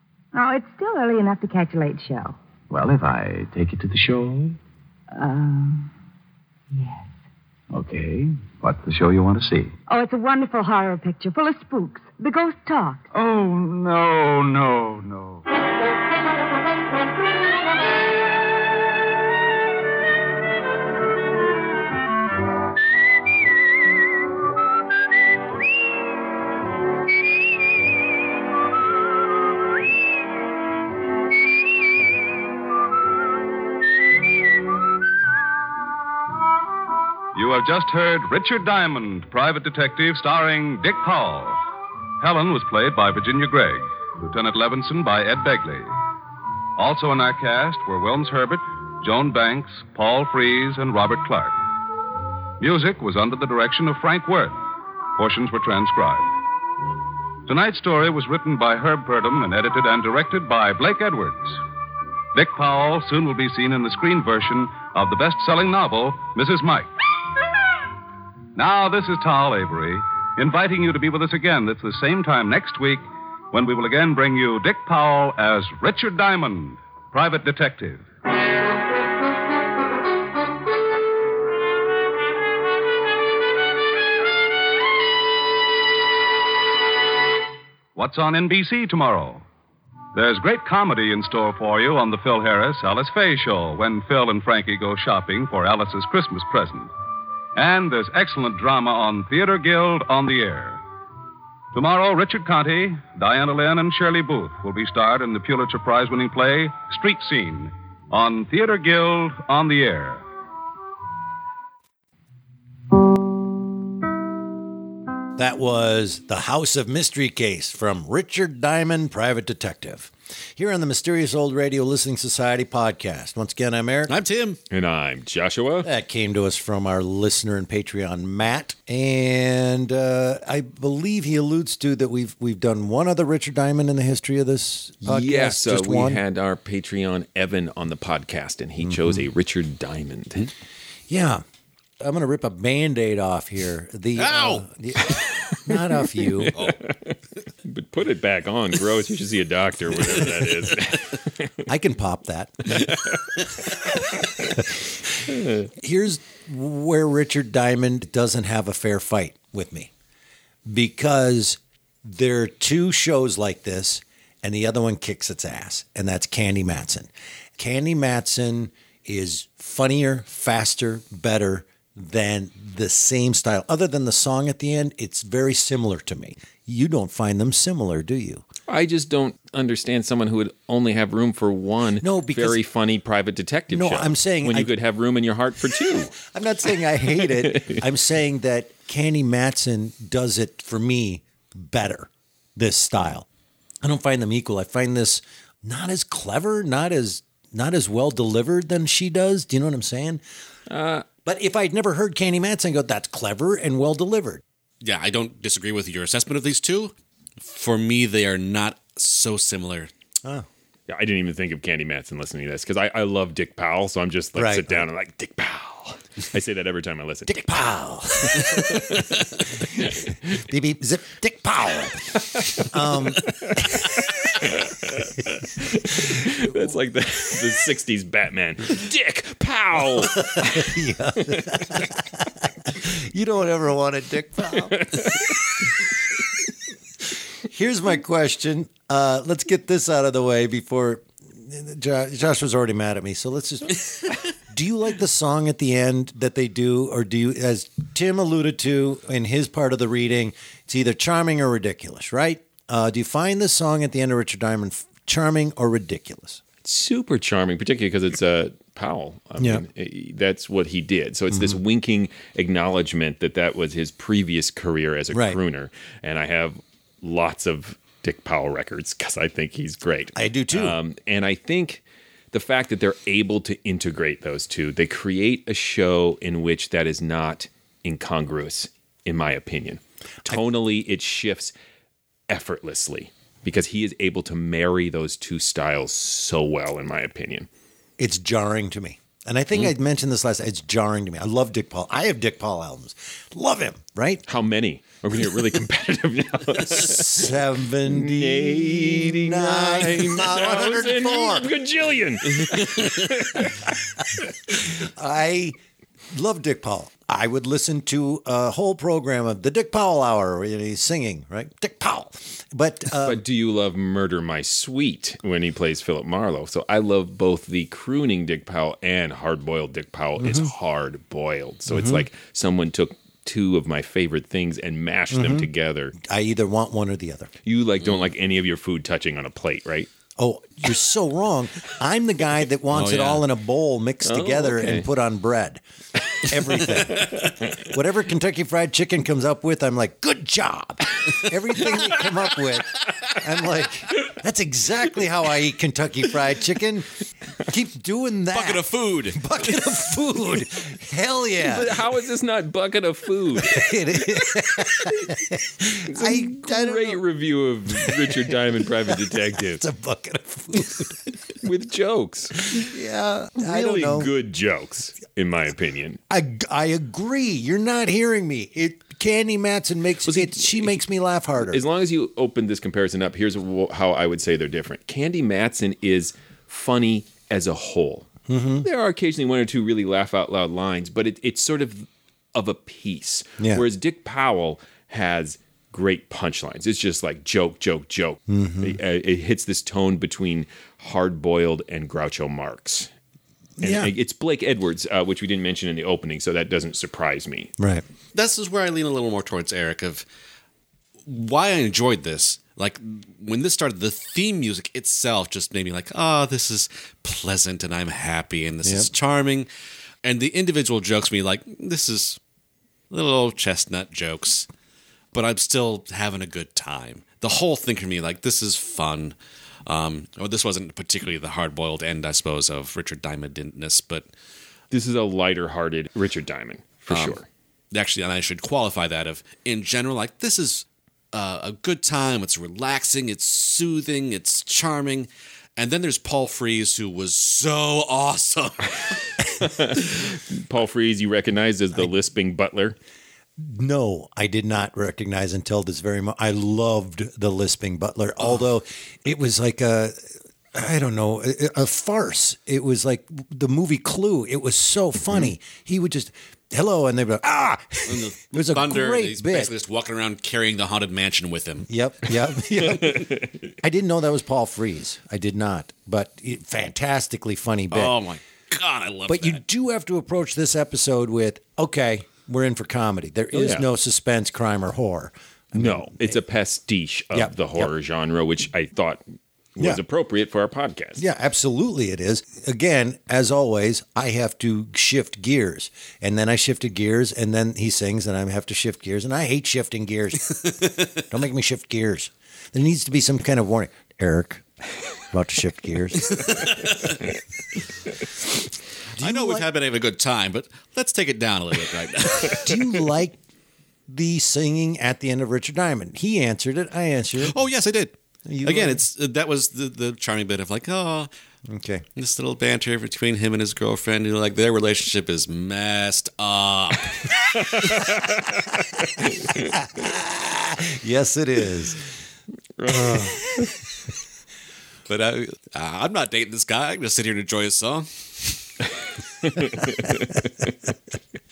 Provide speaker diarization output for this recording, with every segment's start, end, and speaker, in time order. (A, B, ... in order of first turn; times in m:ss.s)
0:00.3-0:02.4 A
0:02.7-0:04.6 B
0:05.1-0:05.9 A
0:06.7-0:07.1 A
0:07.7-0:09.7 B
0:09.9-0:13.0 A
0:13.1-0:15.4 B
0:37.3-0:41.6 C
0:42.2-0:45.9 C
0:46.8-0:51.6 C
0:52.6-0:54.6 C
0:55.2-0:56.3 C
0:57.5-1:01.6 C
1:02.3-1:06.9 C
1:08.6-1:18.1 C
1:28.0-1:29.4 C
1:30.1-1:36.9 C
1:37.6-1:40.8 C
1:41.7-1:50.2 C
1:55.4-2:04.2 D
2:04.1-2:04.6 E
2:04.7-2:05.9 F
2:05.8-2:16.2 D
2:15.0-2:20.5 F
2:21.1-2:21.4 D
2:22.0-2:26.6 D
2:24.2-2:24.6 E
2:26.3-2:27.1 F
2:27.6-2:31.5 F
2:31.7-2:32.9 D
2:35.8-2:39.9 D
2:40.7-2:58.4 D
2:58.7-3:06.2 F
3:02.0-3:02.6 D
3:03.7-3:04.7 D
3:06.2-3:13.3 D
3:07.4-3:07.8 F
3:13.8-3:20.2 D
3:20.7-3:21.0 F
3:21.2-3:24.4 D
3:24.8-3:29.9 E
3:30.9-3:37.6 F
3:34.4-3:34.9 D
3:37.3-3:39.1 D
3:38.3-3:39.1 F
3:39.6-3:44.0 D
3:39.8-3:40.1 F
3:43.3-3:50.7 F
3:49.9-3:54.9 D
3:51.3-3:51.6 F
3:54.7-3:55.3 F
3:57.5-4:16.4 D
4:16.6-4:41.5 F
4:19.4-4:19.6 D
4:21.3-4:21.6 D
4:25.1-4:25.4 D
4:30.2-4:30.8 D
4:42.3-4:47.5 F
4:48.0-4:54.2 D
4:54.3-5:04.3 F
4:56.6-5:01.5 D
5:04.5-5:05.6 D
5:06.1-5:13.2 D
5:13.0-5:25.9 F
5:20.2-5:20.5 D
5:21.7-5:22.0 D
5:25.1-5:27.3 D
5:27.5-5:29.9 F
5:30.2-5:35.6 D
5:32.7-5:33.2 E
5:34.0-5:34.9 F
5:36.2-5:46.9 D
5:47.5-5:51.7 D
5:48.3-5:49.3 E
5:51.4-5:55.1 F
5:53.4-5:57.0 D
5:55.8-5:59.6 F
5:57.7-5:58.3 D
5:59.1-6:01.0 D
6:01.4-6:02.7 F
6:02.5-6:04.1 D
6:03.4-6:06.0 F
6:06.1-6:11.6 D
6:10.1-6:10.8 F
6:11.4-6:18.1 F
6:18.3-6:18.7 D
6:18.6-6:32.9 F
6:28.3-6:28.8 D
6:33.6-6:33.9 D
6:33.6-6:37.5 F
6:37.6-6:37.8 D
6:38.1-6:40.0 E
6:41.1-6:49.5 E
6:48.6-6:48.9 D
6:50.0-6:52.2 E
6:52.9-6:54.5 E
6:55.1-6:59.2 E
6:59.7-7:04.1 E
7:04.7-7:07.2 F
7:06.9-7:07.2 E
7:07.7-7:19.1 E
7:19.4-7:22.8 F
7:23.4-7:30.0 D
7:30.5-7:39.5 D
7:37.9-7:41.7 E
7:41.7-7:48.0 D
7:42.7-7:43.4 F
7:47.7-7:49.4 E
7:49.1-7:56.2 D
7:53.3-7:53.7 F
7:55.6-7:59.0 F
7:57.1-7:57.7 D
7:59.6-8:01.0 F
8:01.0-8:14.4 D
8:15.1-8:16.5 D
8:19.0-8:19.5 D
8:19.0-8:22.8 E
8:22.3-8:23.2 D
8:23.9-8:27.4 D
8:27.2-8:31.1 E
8:28.3-8:28.8 D
8:31.5-8:31.8 D
8:32.0-8:37.1 E
8:37.5-8:39.5 F
8:39.6-8:41.8 D
8:42.6-8:43.6 F
8:44.9-8:48.4 E
8:49.2-8:50.5 F